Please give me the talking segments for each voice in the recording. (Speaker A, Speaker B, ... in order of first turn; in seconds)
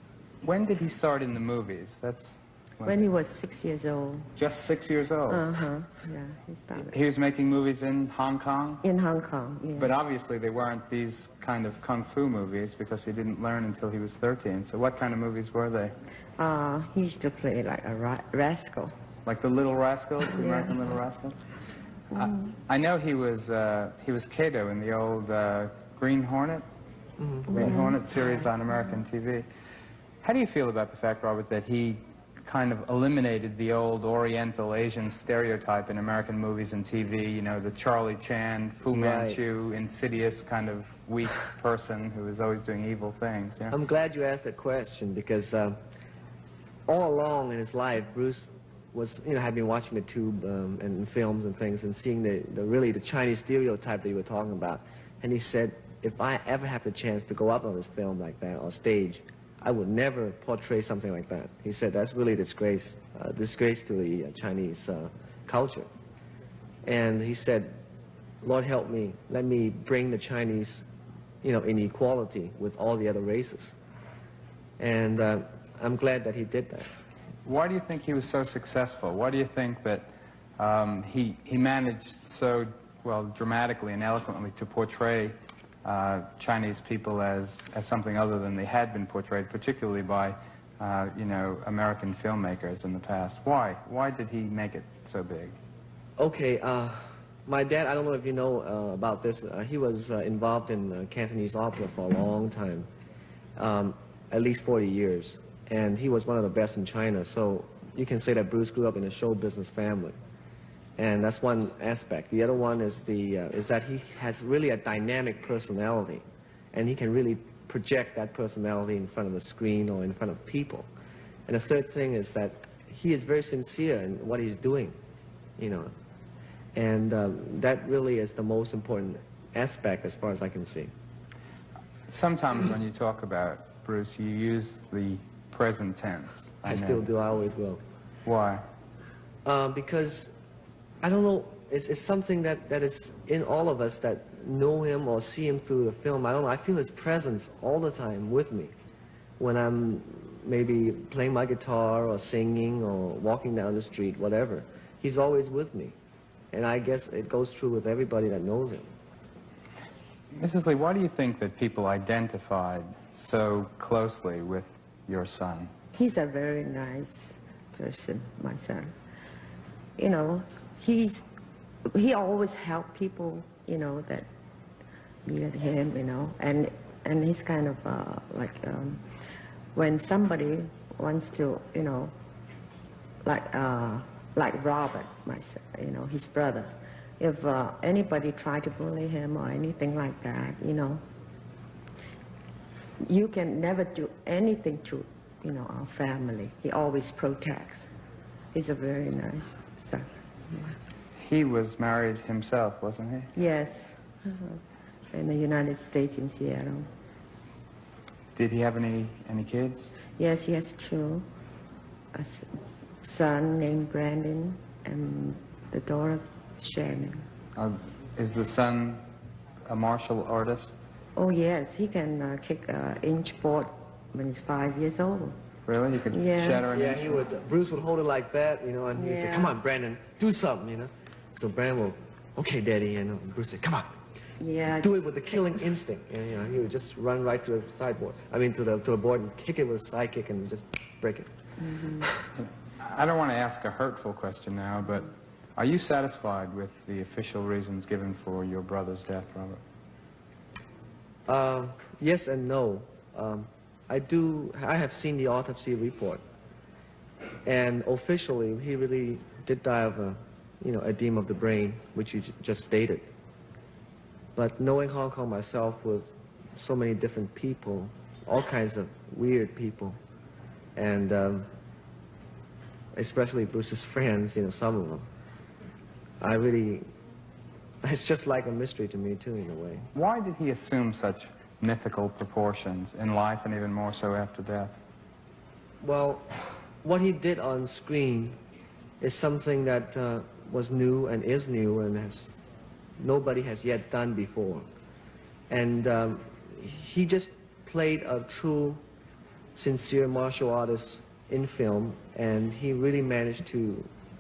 Speaker A: 0.4-3.1, 4.4-5.5, 6.8-8.8, 9.8-15.9, 19.2-21.4, 22.1-26.6, 27.5-29.4, 30.2-43.8, 77.4-80.1, 80.6-95.6, 132.1-137.1, 138.2-138.6, 160.3-165.7, 201.2-203.3, 208.3-209.9, 217.6-219.0, 219.7-220.8, 225.7-227.0, 242.4-249.6, 279.9-284.7
Speaker B: 2.8-4.3, 5.3-6.9, 8.8-9.9, 16.4-18.9, 27.5-28.2, 165.9-168.9, 170.0-171.2, 171.9-174.3, 175.2-179.0, 179.7-182.1, 183.2-191.0, 193.0-197.9, 198.5-200.8, 203.3-204.6, 205.1-206.9, 210.2-211.2, 212.1-212.5, 213.0-217.2, 221.2-225.4, 226.1-226.8, 228.9-229.6, 234.4-235.3, 241.6-242.1
Speaker C: 27.2-27.6, 38.9-39.4, 43.7-45.8, 46.9-65.9, 66.8-67.8, 68.4-70.8, 71.4-73.7, 74.8-76.9, 96.2-102.9, 103.5-110.2, 111.0-120.9, 121.5-125.0, 125.6-125.9, 126.7-130.9, 136.7-137.8, 139.4-140.3, 141.0-148.7, 149.4-155.9, 156.5-158.9, 226.7-233.9, 234.8-241.3, 251.3-256.2, 257.4-263.1, 264.4-270.0, 270.8-271.5, 272.9-275.1, 276.2-276.9, 277.8-279.9, 285.8-286.3, 286.8-288.4, 289.0-292.3, 293.0-294.7, 295.5-298.8, 299.5-303.9